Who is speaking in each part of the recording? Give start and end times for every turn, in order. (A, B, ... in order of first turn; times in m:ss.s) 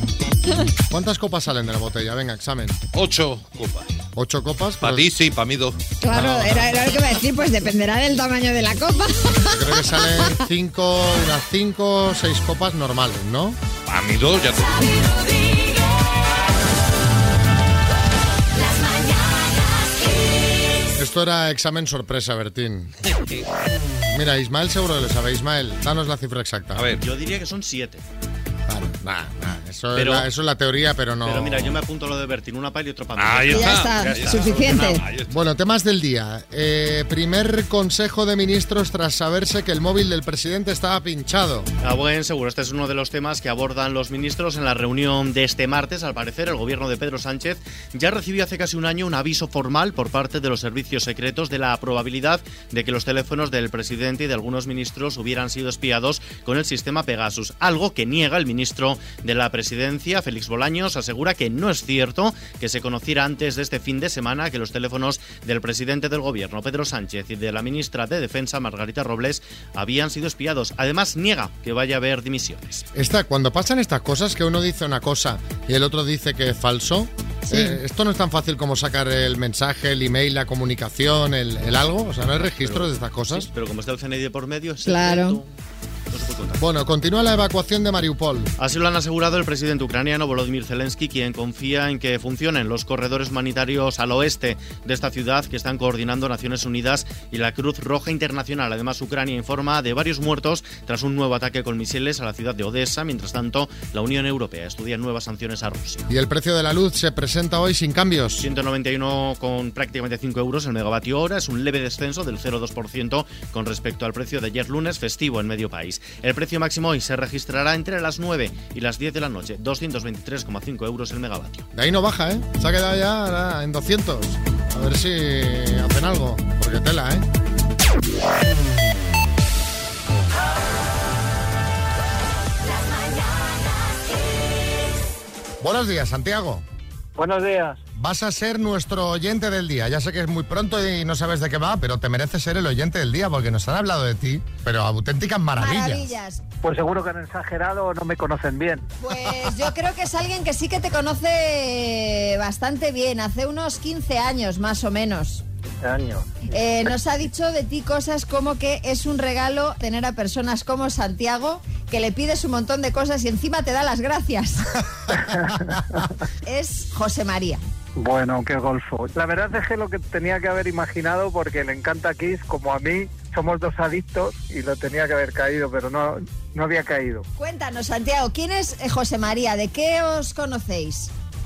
0:00.9-0:02.8 A
0:02.9-0:03.9 B
0:04.2-0:05.1 A
0:04.8-0:05.8 B
0:06.0-0:10.4 C
0:06.1-0:06.7 A
0:09.5-0:13.6 A
0:13.9-0:14.9 B
0:21.0-0:22.9 A
0:24.1-0:26.9 A
0:26.9-0:28.0 D
0:28.7-0:31.8 A
0:29.9-0:30.3 D
0:31.2-0:33.8 D
0:33.2-0:35.3 B
0:33.5-0:35.0 C
0:35.3-0:41.7 A
0:41.8-1:12.9 D
1:13.0-1:23.5 A
1:17.5-1:17.8 C
1:22.6-1:25.5 D
1:24.8-1:25.4 C
1:26.1-1:26.6 D
1:26.6-1:28.5 A
1:28.6-1:46.1 D
1:46.1-1:48.5 A
1:48.4-2:01.7 D
2:01.7-2:07.2 A
2:15.6-2:16.6 A
2:17.2-2:17.8 E
2:17.9-2:26.1 A
2:25.6-2:26.4 C
2:26.6-2:28.9 E
2:29.0-2:35.4 C
2:35.8-2:36.3 E
2:36.5-2:44.7 C
2:45.1-2:46.1 E
2:46.4-2:47.6 C
2:48.0-2:57.3 E
2:57.4-3:01.1 C